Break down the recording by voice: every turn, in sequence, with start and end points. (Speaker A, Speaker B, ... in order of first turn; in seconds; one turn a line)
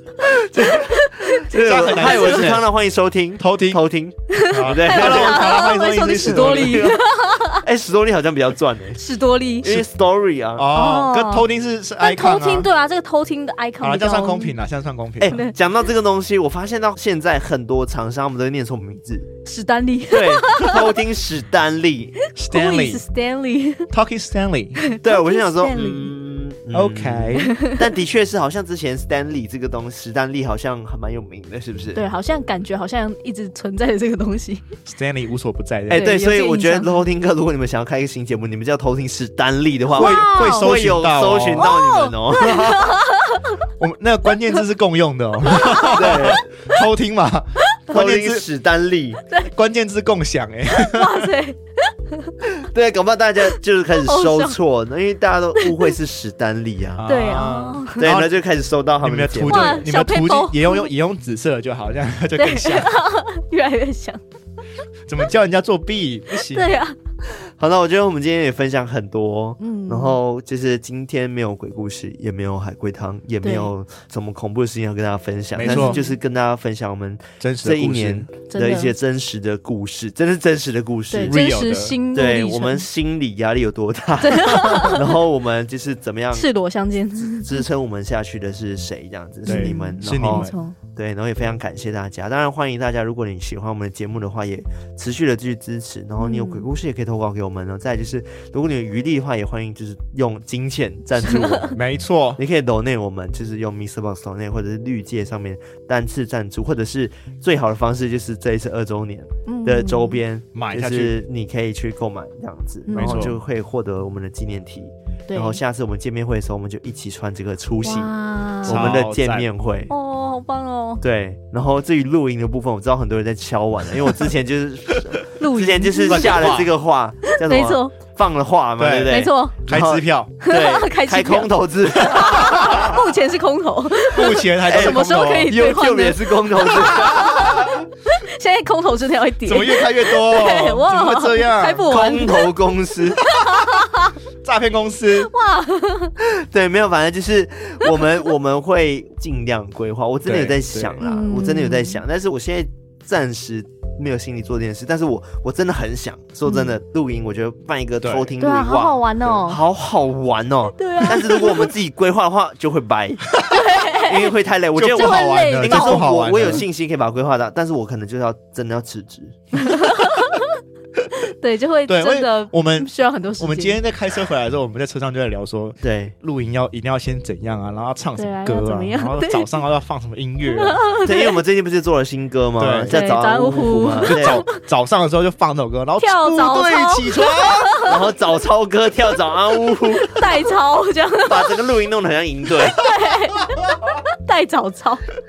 Speaker A: 0.2-5.7
Speaker B: 0.5-2.5
Speaker C: 1.5-2.6
Speaker C: 3.4-3.8
Speaker B: 4.3-7.6
Speaker C: 4.5-7.0
Speaker A: 6.2-6.9
Speaker A: 7.5-9.0
Speaker B: 9.0-9.8
Speaker A: 9.6-10.7
Speaker C: 10.6-12.7
Speaker B: 10.7-11.5
Speaker B: 12.0-14.6
Speaker C: 13.8-15.4
Speaker A: 15.2-19.3
Speaker B: 15.3-15.5
Speaker B: 19.4-20.9
Speaker A: 20.1-22.1
Speaker B: 22.3-23.9
Speaker C: 22.3-23.0
Speaker C: 23.9-24.8
Speaker B: 24.8-26.1
Speaker A: 25.0-32.0
Speaker C: 26.7-27.5
Speaker B: 27.4-27.8
Speaker B: 31.9-34.6
Speaker C: 34.9-36.1
Speaker A: 35.9-42.9
Speaker B: 35.9-36.9
Speaker B: 39.9-40.7
Speaker C: 39.9-41.7
Speaker B: 41.6-43.6
Speaker C: 43.8-48.4
Speaker B: 45.6-46.2
Speaker A: 45.9-46.5
Speaker A: 47.9-49.2
Speaker C: 49.5-51.3
Speaker B: 50.7-52.3
Speaker A: 52.5-57.0
Speaker B: 54.0-54.6
Speaker C: 57.0-58.4
Speaker B: 57.1-58.0
Speaker A: 58.0-59.8
Speaker C: 59.0-63.0
Speaker B: 59.5-60.9
Speaker B: 62.4-64.2
Speaker C: 65.1-66.8
Speaker B: 66.5-67.0
Speaker A: 67.4-81.4
Speaker B: 69.6-70.2
Speaker B: 73.4-73.7
Speaker C: 75.5-76.0
Speaker B: 75.6-76.2
Speaker C: 77.4-78.3
Speaker B: 78.5-78.9
Speaker B: 81.1-82.8
Speaker C: 81.2-82.0
Speaker A: 82.1-86.5
Speaker B: 84.2-85.1
Speaker B: 86.3-87.6
Speaker A: 87.2-101.8
Speaker C: 89.5-90.5
Speaker B: 89.5-90.8
Speaker B: 96.2-96.7
Speaker B: 101.2-101.7
Speaker C: 101.7-102.4
Speaker A: 102.3-118.1
Speaker B: 109.5-110.2
Speaker C: 110.5-111.2
Speaker B: 112.9-113.3
Speaker C: 112.9-113.4
Speaker B: 115.3-115.6
Speaker B: 117.8-118.9
Speaker C: 118.6-119.5
Speaker A: 118.6-119.9
Speaker B: 119.9-121.0
Speaker A: 121.0-133.0
Speaker B: 125.4-126.5
Speaker C: 126.0-126.7
Speaker B: 127.3-127.9
Speaker C: 128.8-130.3
Speaker B: 129.1-129.6
Speaker B: 130.4-142.5
Speaker C: 134.1-135.5
Speaker A: 134.7-137.6
Speaker C: 137.0-137.7
Speaker C: 139.4-141.8
Speaker A: 141.8-143.3
Speaker B: 143.2-144.1
Speaker C: 144.4-145.3
Speaker B: 145.2-146.1
Speaker A: 146.2-163.4
Speaker C: 150.2-151.0
Speaker B: 151.0-152.0
Speaker B: 156.4-156.7
Speaker C: 158.0-158.3
Speaker B: 158.4-159.6
Speaker B: 160.8-161.7
Speaker B: 163.5-164.3
Speaker A: 163.9-169.4
Speaker C: 164.8-166.6
Speaker B: 164.9-166.1
Speaker B: 169.6-170.5
Speaker B: 171.1-173.8
Speaker C: 171.9-180.8
Speaker A: 175.8-176.1
Speaker B: 178.2-179.5
Speaker B: 180.5-181.3
Speaker A: 181.0-184.4
Speaker C: 182.6-183.0
Speaker B: 182.9-184.5
Speaker C: 184.0-187.8
Speaker B: 186.0-187.9
Speaker A: 187.8-190.3
Speaker B: 190.0-191.6
Speaker A: 191.2-192.8
Speaker B: 192.7-195.0